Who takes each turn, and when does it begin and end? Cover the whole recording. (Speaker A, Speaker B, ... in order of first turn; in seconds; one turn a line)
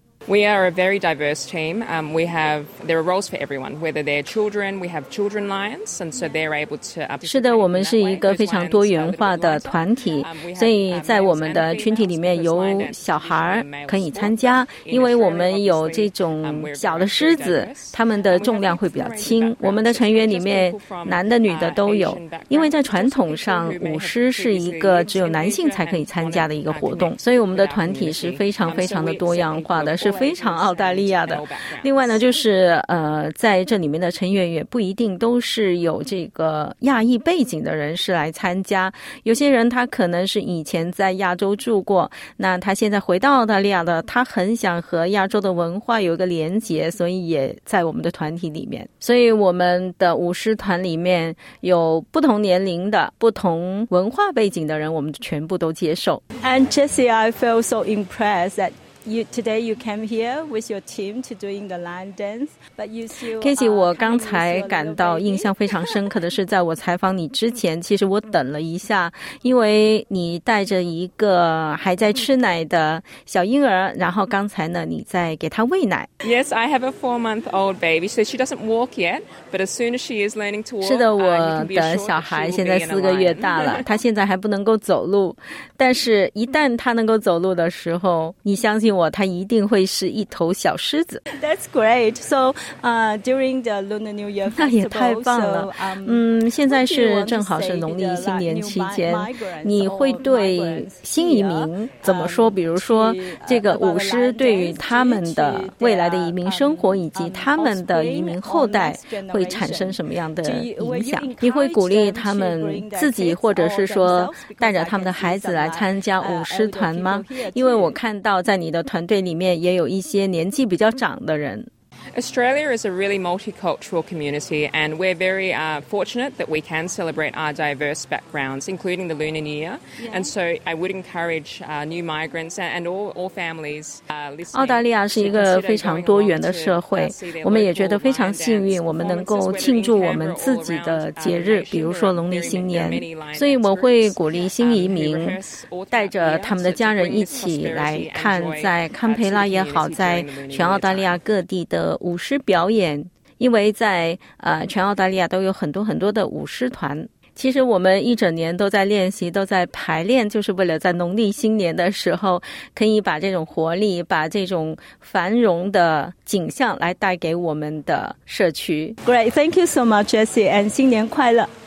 Speaker A: 0.3-32.2
Speaker B: 7.2-56.2
Speaker C: 56.4-65.6
Speaker B: 63.4-76.1
Speaker A: 76.2-83.8
Speaker B: 80.8-91.2
Speaker C: 91.3-118.0
Speaker B: 94.5-121.7
Speaker A: 122.1-151.2
Speaker B: 134.5-169.0
Speaker C: 169.0-171.5